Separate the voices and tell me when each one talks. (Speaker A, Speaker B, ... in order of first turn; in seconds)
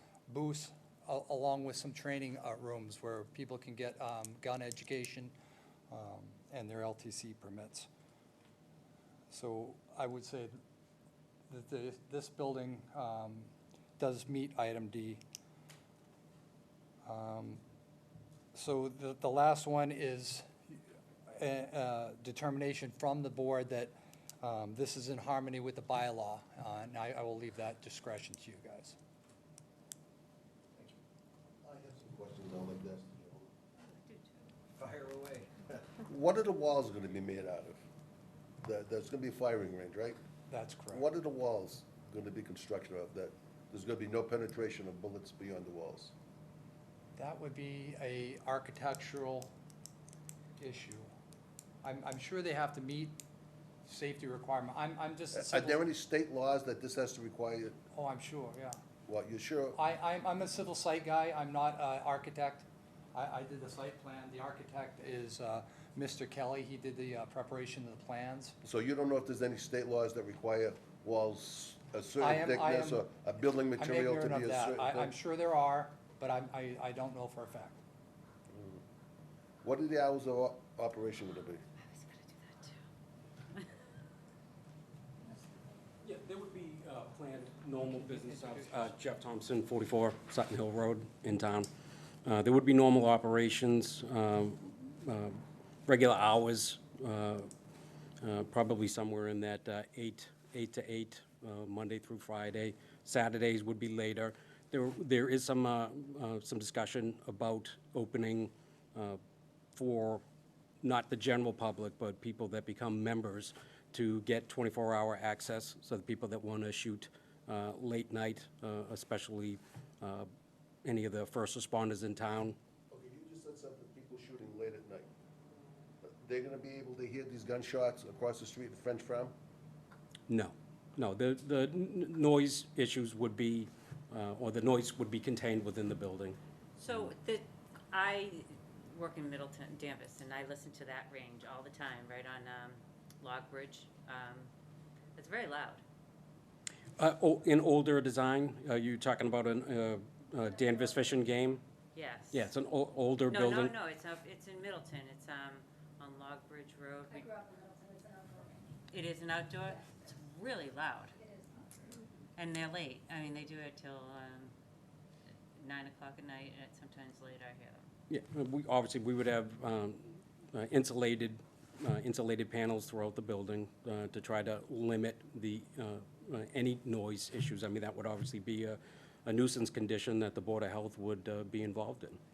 Speaker A: 0.3-5.3, 5.9-7.9, 9.3-10.6, 11.5-15.2, 17.0-17.6, 18.5-29.0, 34.7-35.7, 40.5-41.0, 47.2-49.5, 50.6-51.1, 51.8-53.2, 53.8-55.8, 57.9-58.8, 59.7-68.5, 72.2-73.0, 73.8-77.8, 87.9-88.9
Speaker B: 31.6-33.5, 36.0-37.8, 38.6-40.2, 40.9-46.1, 55.3-57.8, 59.1-59.8, 68.6-75.1, 78.5-78.8, 79.6-81.6, 122.9-125.1, 126.0-129.3
Speaker C: 33.9-34.5, 81.8-82.8, 136.8-144.5, 145.2-145.8, 151.9-152.5, 153.3-157.4, 158.9-161.2, 162.3-164.5, 165.6-167.9
Speaker D: 86.0-91.7, 92.2-97.5, 98.2-109.2, 109.7-110.2, 110.8-120.3, 120.8-122.6, 130.3-136.4, 147.0-151.6, 152.3-153.7, 168.1-182.2
Speaker E: 157.1-158.8, 161.2-161.6